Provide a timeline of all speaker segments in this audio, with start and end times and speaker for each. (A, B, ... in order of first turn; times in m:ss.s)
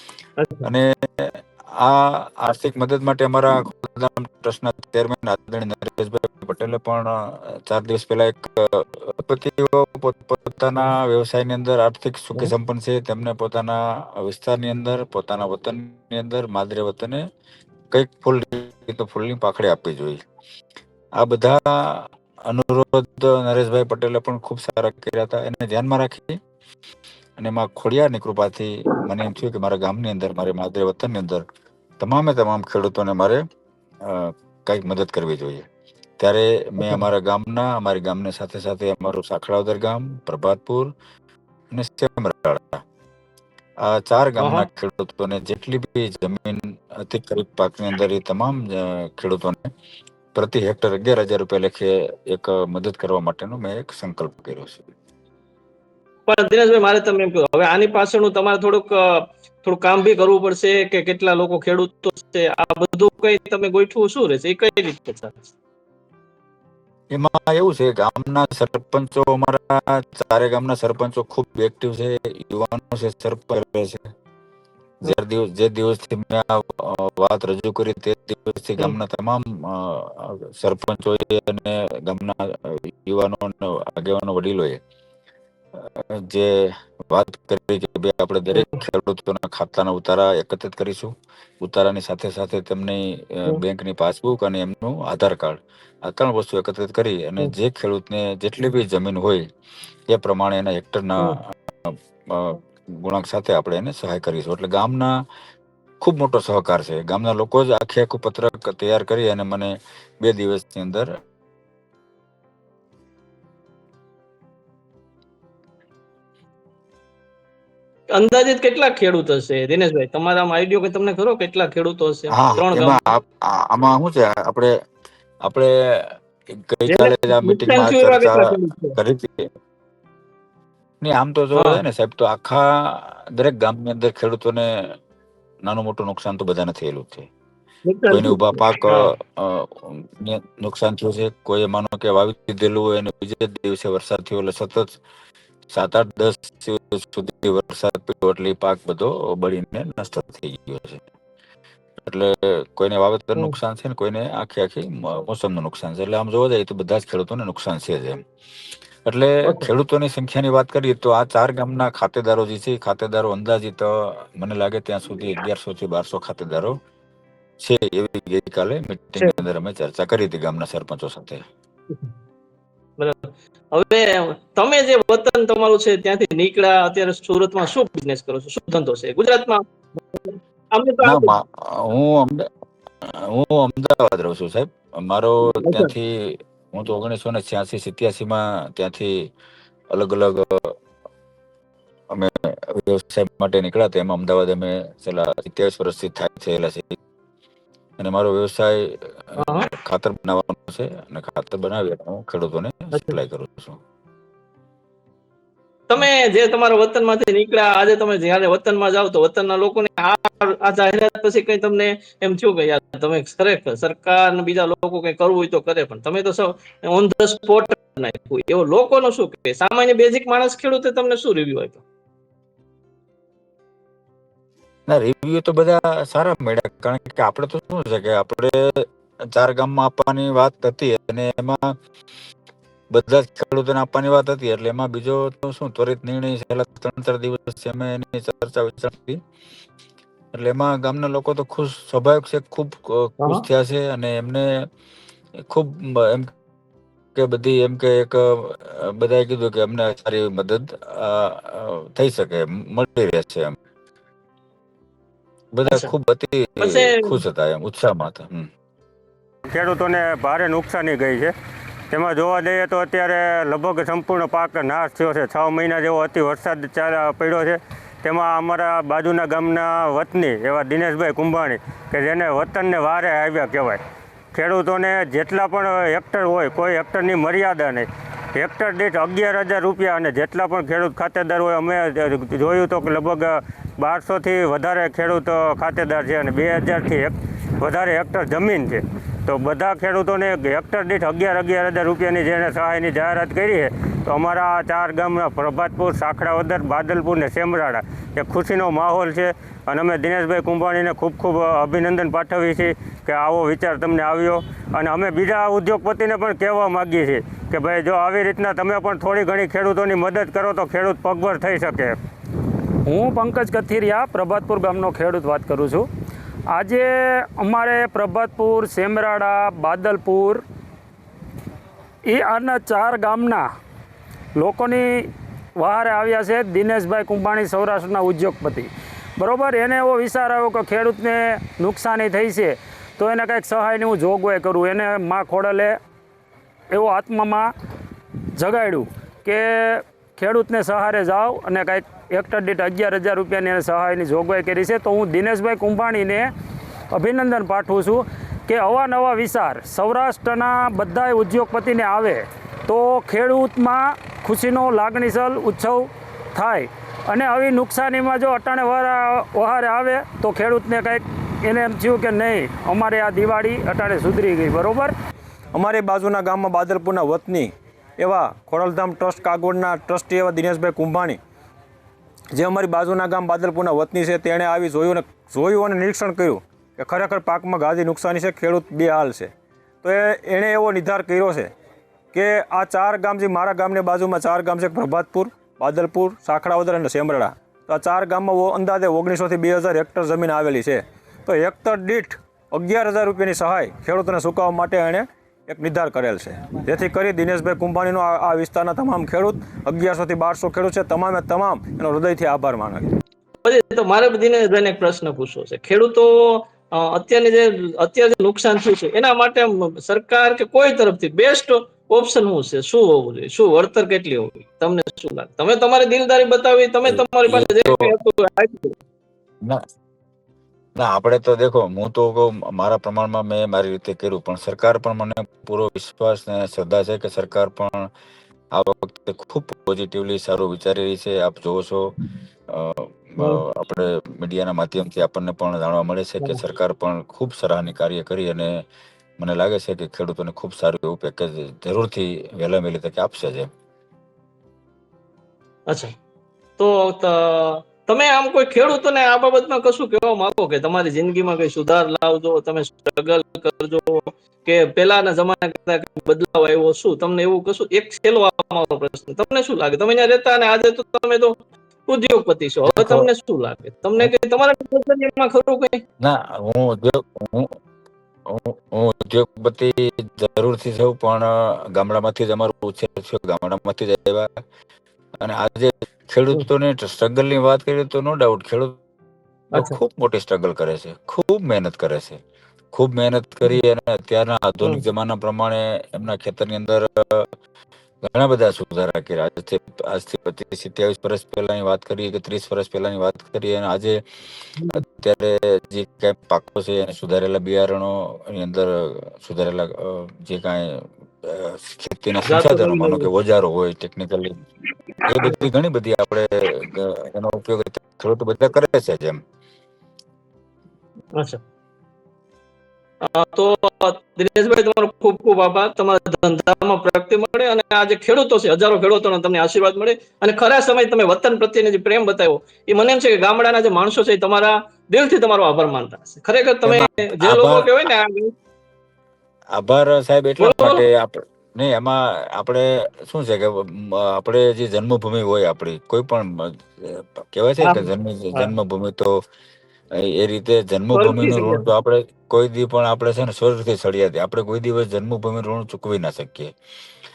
0:00.4-0:00.6 A
0:00.6-0:17.2 B
0:17.9-0:20.2 B
0:21.2-0:26.4 B
0:27.4-0:31.4 B
0:32.0-0:33.4 B
0:34.0-0:35.6 B
0:36.2-0:40.9 B
0:41.7-0:42.8 B
0:43.8-0:49.7 B
0:44.4-0:44.7 A
0:50.3-0:54.9 B
0:56.3-0:59.0 A
0:59.6-1:05.5 A
1:07.1-1:14.1 B
1:15.0-1:24.8 B
1:25.8-1:31.1 B
1:31.6-1:39.4 B
1:40.1-1:45.1 B
1:46.0-1:51.1 B
1:58.1-2:03.0 A
2:02.3-2:04.7 B
2:05.4-2:09.4 B
2:06.9-2:09.0 A
2:11.0-2:14.8 B
2:11.6-2:11.8 A
2:15.6-2:17.3 B
2:17.9-2:19.1 A
2:18.1-2:25.0 B
2:25.7-2:31.0 B
2:32.0-2:38.2 B
2:39.0-2:46.8 B
2:47.6-2:51.4 B
2:53.0-3:01.3 A
3:01.0-3:02.5 B
3:03.0-3:09.3 B
3:05.6-3:05.9 A
3:09.9-3:10.7 B
3:12.1-3:17.0 B
3:18.0-3:23.8 B
3:19.4-3:19.7 A
3:25.9-3:41.8 A
3:44.9-3:51.7 B
3:52.9-3:59.2 B
4:00.3-4:04.5 B
4:05.5-4:06.3 B
4:07.2-4:13.5 B
4:15.5-4:18.5 B
4:15.7-4:15.9 A
4:16.6-4:17.2 A
4:19.5-4:21.3 C
4:21.9-4:33.8 C
4:34.3-5:12.0 C
5:12.8-5:15.9 D
5:16.5-5:20.4 D
5:22.0-5:23.4 D
5:24.4-5:35.8 D
5:36.7-5:37.5 D
5:38.4-5:46.3 D
5:46.9-6:04.9 D
6:05.5-6:11.2 E
6:12.3-6:19.3 E
6:19.8-6:21.5 E
6:22.1-6:42.9 E
6:43.4-6:58.7 A
6:56.9-6:57.9 B
7:00.8-7:07.9 B
7:08.5-7:11.8 B
7:12.5-7:18.6 B
7:19.2-7:23.5 B
7:26.6-7:41.3 A
7:41.9-7:45.8 A
7:42.7-7:43.1 B
7:46.0-7:47.5 B
7:48.3-7:54.3 B
7:55.2-7:58.8 B
7:59.5-8:02.2 B
8:02.7-8:07.3 B
8:08.0-8:14.0 B
8:14.7-8:24.3 B
8:22.2-8:23.0 A
8:25.0-8:29.2 B
8:31.1-8:31.4 A
8:33.0-8:48.3 A
8:46.6-8:47.7 B
8:49.5-8:59.1 B
8:50.4-8:50.8 A
8:57.6-8:58.5 A
9:00.0-9:06.5 B
9:00.9-9:01.6 A